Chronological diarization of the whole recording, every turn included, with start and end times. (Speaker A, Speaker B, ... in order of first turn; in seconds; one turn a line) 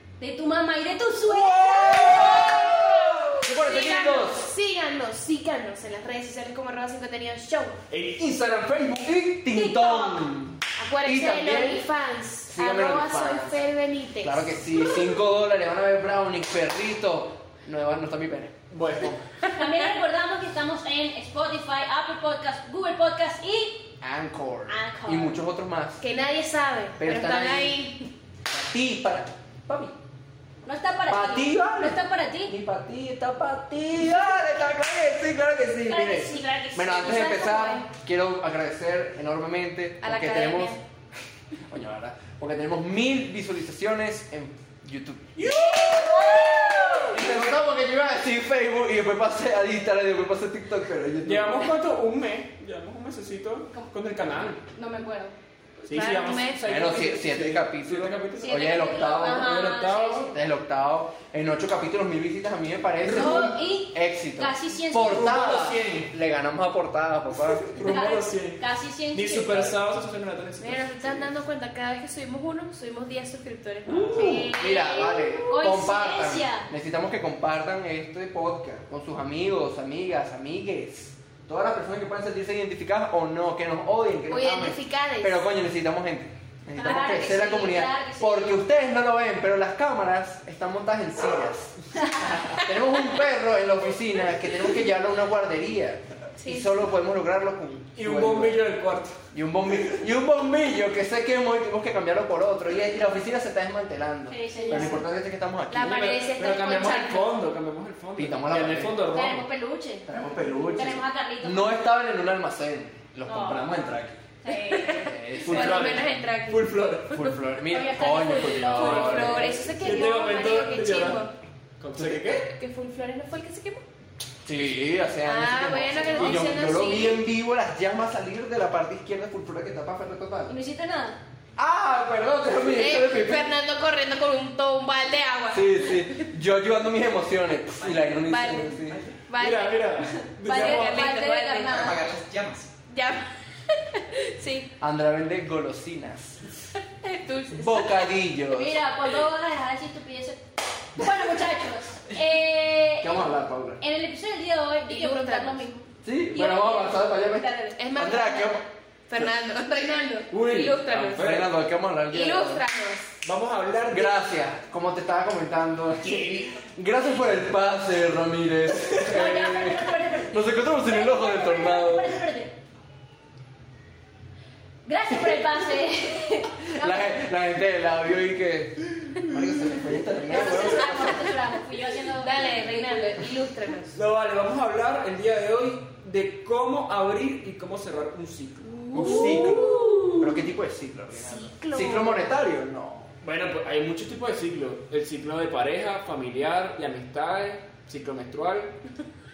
Speaker A: 0.2-3.2
Speaker B: 1.3-4.5
Speaker C: 1.6-2.6
Speaker D: 3.5-7.8
Speaker C: 7.9-9.0
Speaker B: 8.8-11.8
Speaker A: 9.5-10.2
Speaker D: 10.8-14.6
Speaker B: 12.5-13.6
Speaker B: 14.2-19.2
Speaker C: 18.7-19.2
Speaker A: 19.5-23.9
Speaker B: 24.0-26.0
Speaker A: 24.7-25.4
Speaker D: 26.0-28.1
Speaker B: 27.0-27.8
Speaker B: 28.5-29.9
Speaker A: 30.6-32.5
Speaker B: 31.1-40.8
Speaker A: 35.9-37.9
Speaker D: 40.0-40.8
Speaker B: 41.7-45.3
Speaker C: 45.3-47.3
Speaker A: 45.4-47.2
Speaker B: 47.1-51.7
Speaker C: 51.2-54.6
Speaker A: 54.7-55.3
Speaker D: 55.8-56.9
Speaker C: 55.9-60.3
Speaker B: 56.6-59.6
Speaker A: 58.4-60.3
Speaker B: 60.3-67.7
Speaker C: 63.0-63.5
Speaker A: 63.0-65.6
Speaker C: 65.0-66.1
Speaker C: 67.6-71.3
Speaker A: 67.8-69.8
Speaker D: 70.6-75.4
Speaker C: 73.9-74.5
Speaker B: 74.1-98.6
Speaker A: 74.6-76.7
Speaker D: 84.3-85.4
Speaker A: 86.8-88.6
Speaker D: 96.4-96.7
Speaker C: 98.0-99.2
Speaker B: 99.3-106.2
Speaker A: 104.3-105.0
Speaker D: 104.5-105.0
Speaker D: 105.7-107.4
Speaker C: 105.8-109.5
Speaker B: 108.2-109.0
Speaker A: 109.1-110.1
Speaker B: 110.1-114.2
Speaker A: 110.8-111.8
Speaker A: 113.3-113.8
Speaker A: 114.4-115.1
Speaker D: 114.5-116.8
Speaker B: 114.8-116.1
Speaker C: 115.4-117.3
Speaker B: 117.1-119.9
Speaker A: 117.7-119.6
Speaker C: 118.7-122.5
Speaker D: 118.8-121.3
Speaker B: 122.0-122.4
Speaker D: 122.3-123.8
Speaker B: 124.4-130.5
Speaker D: 125.2-127.2
Speaker A: 130.5-131.2
Speaker B: 131.6-133.5
Speaker D: 132.7-136.3
Speaker B: 135.5-139.0
Speaker D: 138.2-139.9
Speaker C: 139.0-141.1
Speaker A: 140.4-142.1
Speaker D: 140.5-142.0
Speaker C: 141.7-142.7
Speaker D: 142.9-144.7
Speaker B: 144.8-146.4
Speaker D: 147.0-148.1
Speaker B: 147.5-148.8
Speaker A: 148.5-157.8
Speaker B: 153.0-153.8
Speaker D: 154.9-155.7
Speaker B: 156.0-158.6
Speaker D: 157.8-161.3
Speaker C: 160.3-161.5
Speaker B: 161.2-162.6
Speaker D: 162.1-163.2
Speaker C: 163.2-164.2
Speaker B: 163.9-172.2
Speaker C: 166.0-166.6
Speaker A: 168.9-172.5
Speaker A: 174.8-177.2
Speaker B: 176.7-181.3
Speaker A: 180.3-183.3
Speaker C: 180.3-180.8
Speaker D: 180.6-181.1
Speaker D: 182.1-184.0
Speaker C: 183.9-189.5
Speaker B: 188.9-193.1
Speaker D: 189.0-190.2
Speaker A: 189.2-189.7
Speaker D: 191.1-192.4
Speaker C: 193.2-198.8